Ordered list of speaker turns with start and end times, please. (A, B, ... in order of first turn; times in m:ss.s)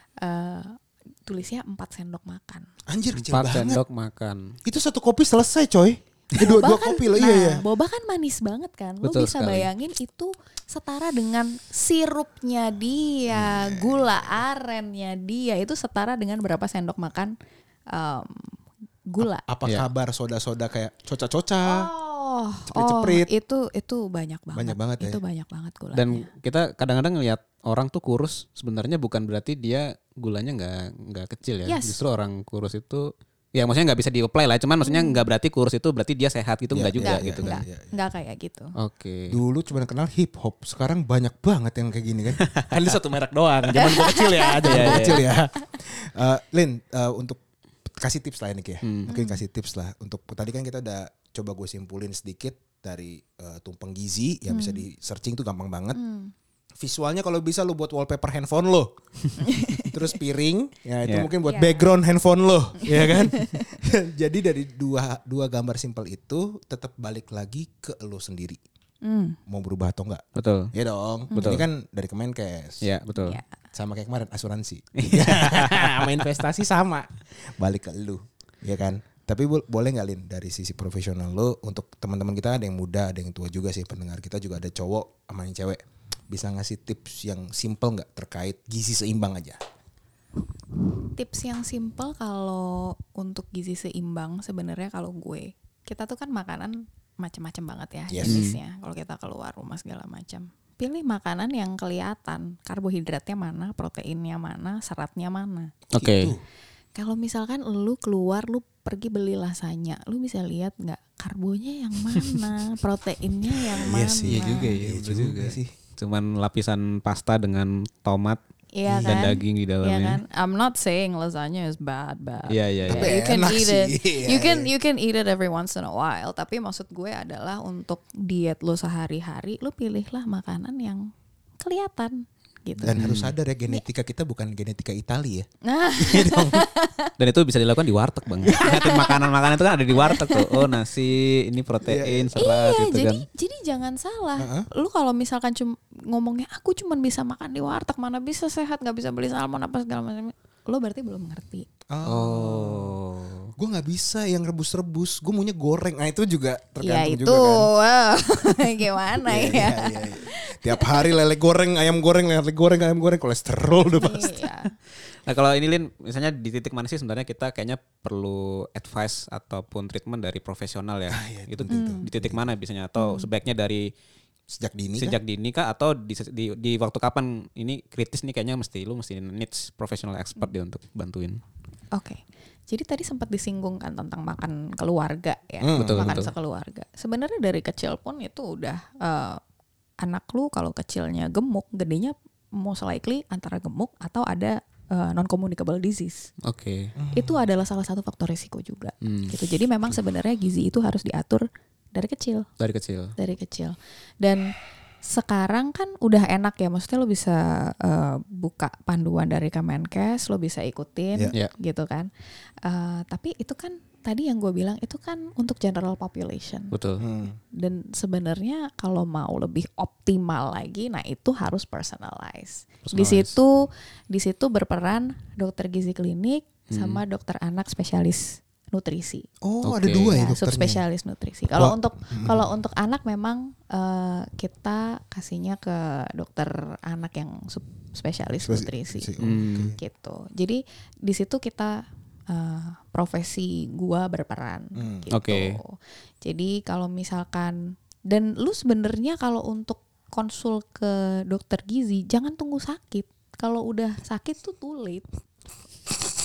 0:00.2-0:02.6 A
0:02.9-0:03.8 B
0:03.2-0:04.5 C
0:04.6-0:07.6 B
0:06.4-0:17.4 A
0:09.0-0:09.7 C
0:13.3-0:14.4 B
0:17.9-0:19.4 A
0:19.2-0:21.9 B
0:21.6-0:26.3 A
0:22.7-0:23.3 B
0:24.5-0:25.2 B
0:25.9-0:37.6 C
0:31.6-0:32.0 A
0:34.8-0:35.2 A
0:36.7-0:37.9 B
0:37.0-0:38.7 A
0:38.8-0:39.4 C
0:39.3-0:56.0 B
0:42.4-0:42.9 C
0:43.8-0:45.2 A
0:44.6-0:45.2 C
0:48.8-0:49.1 C
0:49.1-0:49.4 A
0:54.5-0:54.8 A
0:55.9-0:56.3 A
0:56.8-0:58.9 B
0:59.4-1:00.0 A
0:59.7-1:08.6 B
1:01.4-1:01.9 A
1:02.8-1:03.8 A
1:09.0-1:09.4 A
1:09.5-1:12.8 B
1:10.3-1:10.7 C
1:11.3-1:11.6 A
1:11.4-1:11.6 C
1:12.8-1:13.4 C
1:13.1-1:13.5 A
1:13.7-1:29.6 B
1:15.0-1:16.3 C
1:31.1-1:45.7 A
1:38.1-1:38.4 B
1:38.2-1:38.6 C
1:45.9-1:46.4 B
1:45.9-1:46.3 C
1:47.0-1:54.8 A
1:53.8-1:55.7 B
1:54.2-2:00.2 C
1:58.7-2:13.0 A
2:02.5-2:03.3 C
2:02.9-2:04.7 B
2:12.8-2:15.5 B
2:13.0-2:13.3 C
2:15.6-2:17.1 A
2:16.0-2:16.6 B
2:17.2-2:23.2 C
2:18.4-2:18.8 B
2:18.5-2:19.3 A
2:19.9-2:20.8 A
2:21.8-2:22.3 B
2:22.3-2:31.7 A
2:24.4-2:24.7 B
2:31.9-2:33.0 B
2:32.0-2:33.5 C
2:33.6-2:37.7 B
2:36.8-2:41.1 A
2:39.2-2:44.4 B
2:43.9-2:44.7 A
2:45.1-2:53.9 C
2:51.1-2:52.4 B
2:51.7-2:52.1 A
2:53.0-2:53.3 A
2:54.5-2:55.2 B
2:55.0-3:01.4 C
3:01.9-3:09.4 A
3:05.6-3:06.2 B
3:05.8-3:06.3 C
3:10.0-3:16.3 A
3:16.4-3:16.9 C
3:17.0-3:17.4 B
3:17.1-3:22.5 A
3:19.0-3:19.3 C
3:22.6-3:23.1 C
3:23.2-3:24.5 A
3:25.0-3:32.1 A
3:32.6-3:36.8 A
3:36.7-3:37.0 C
3:37.0-3:37.4 B
3:37.5-3:49.3 A
3:42.9-3:43.4 C
3:46.7-3:47.0 C
3:49.4-3:50.8 B
3:49.6-3:50.2 C
3:50.0-3:59.1 A
3:51.5-3:52.5 B
3:58.4-3:59.8 B
3:59.2-3:59.7 C
3:59.8-4:15.1 A
4:04.7-4:05.1 B
4:05.1-4:05.6 C